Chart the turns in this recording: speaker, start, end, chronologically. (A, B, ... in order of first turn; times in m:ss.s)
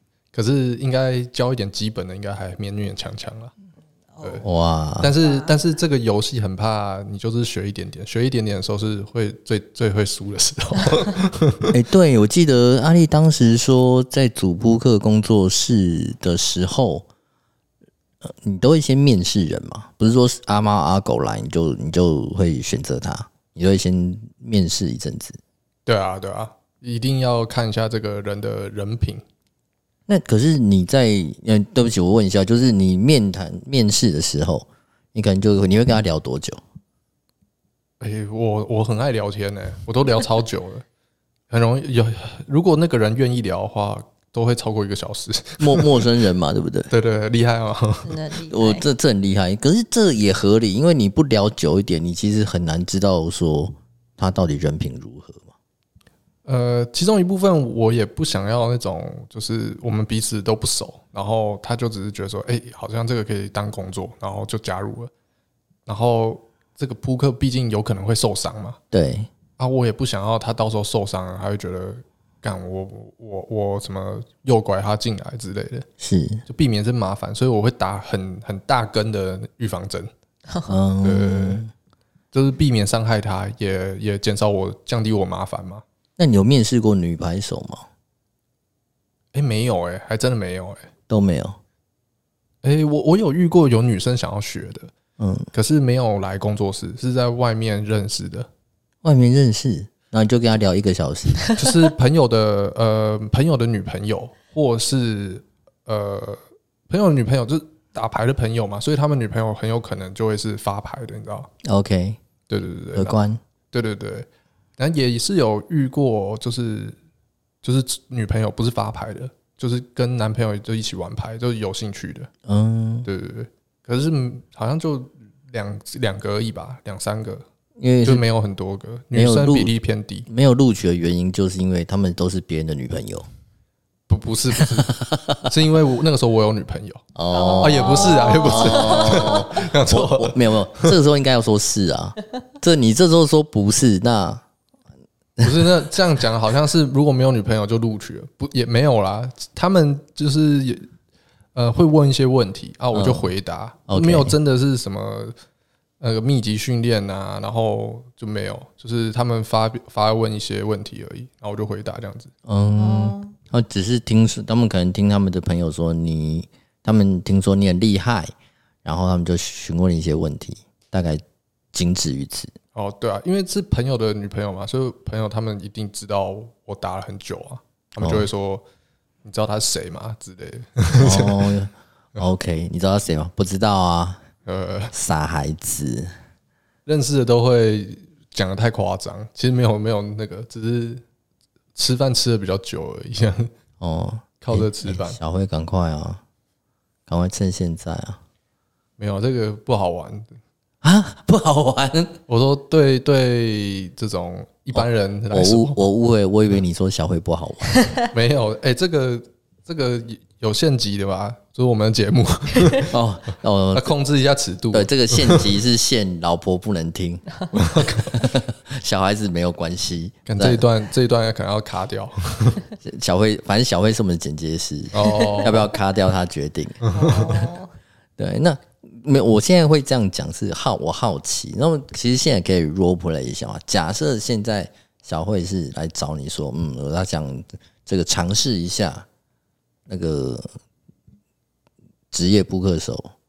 0:00.3-0:03.5 A
0:04.2-0:04.4 B
0:04.4-0:05.1 C
0:05.0-0:11.7 A
0:05.2-0:05.6 B
0:11.7-0:17.1 C
0:18.2-0:25.4 C
0:25.9-0:29.2 A
0:30.1-0:36.6 C
0:38.0-0:40.8 A
0:41.5-0:46.1 A
0:45.6-0:46.9 C
0:46.9-0:48.2 A
0:48.0-0:48.9 B
0:48.5-0:55.5 C
0:56.5-1:05.1 A
1:05.9-1:08.8 A
1:08.9-1:09.3 C
1:09.6-1:15.9 A
1:16.0-1:16.4 C
1:16.5-1:20.1 A
1:20.5-1:20.8 B
1:20.7-1:21.7 C
1:21.0-1:21.6 A
1:22.3-1:25.8 A
1:26.2-1:27.9 C
1:29.3-1:30.9 A
1:31.1-1:31.6 C
1:32.6-1:34.9 A
1:35.2-1:35.5 C
1:35.5-1:38.5 A
1:39.0-1:41.5 C
1:41.4-1:41.8 B
1:41.6-1:51.5 A
1:51.6-1:52.2 C
1:52.5-1:53.2 A
1:52.9-1:53.4 C
1:53.7-1:54.3 A
1:54.8-1:57.0 A
1:57.6-2:02.3 A
2:02.4-2:03.1 C
2:03.1-2:07.4 A
2:07.8-2:08.2 C
2:08.0-2:10.3 A
2:09.1-2:09.7 C
2:10.3-2:13.3 C
2:14.1-2:17.0 A
2:14.9-2:15.5 C
2:17.2-2:24.4 C
2:17.3-2:19.5 B
2:17.6-2:21.0 A
2:25.4-2:25.6 C
2:25.4-2:30.9 A
2:31.6-2:35.4 A
2:32.9-2:33.3 C
2:33.9-2:34.4 C
2:36.0-2:42.3 A
2:42.5-2:48.3 C
2:42.8-2:43.4 B
2:48.8-2:51.2 C
2:51.7-2:52.5 C
2:52.8-2:58.6 A
2:58.0-2:58.3 C
2:59.2-3:01.5 A
3:00.9-3:04.2 C
3:04.5-3:04.9 A
3:04.9-3:06.1 C
3:06.9-3:11.0 A
3:11.8-3:13.5 A
3:13.8-3:16.2 C
3:14.4-3:15.2 A
3:17.1-3:18.2 C
3:19.0-3:20.3 A
3:20.8-3:22.2 C
3:22.3-3:25.8 A
3:24.8-3:27.7 C
3:28.1-3:33.0 A
3:32.9-3:33.9 C
3:33.7-3:35.6 A
3:34.7-3:40.6 C
3:37.5-3:38.2 A
3:40.3-3:42.6 A
3:42.8-3:46.8 C
3:44.9-3:45.7 A
3:45.1-3:45.5 B
3:46.8-3:47.4 A
3:46.9-3:47.7 B
3:48.2-3:59.1 C
3:59.9-4:00.5 C
4:02.1-4:03.1 C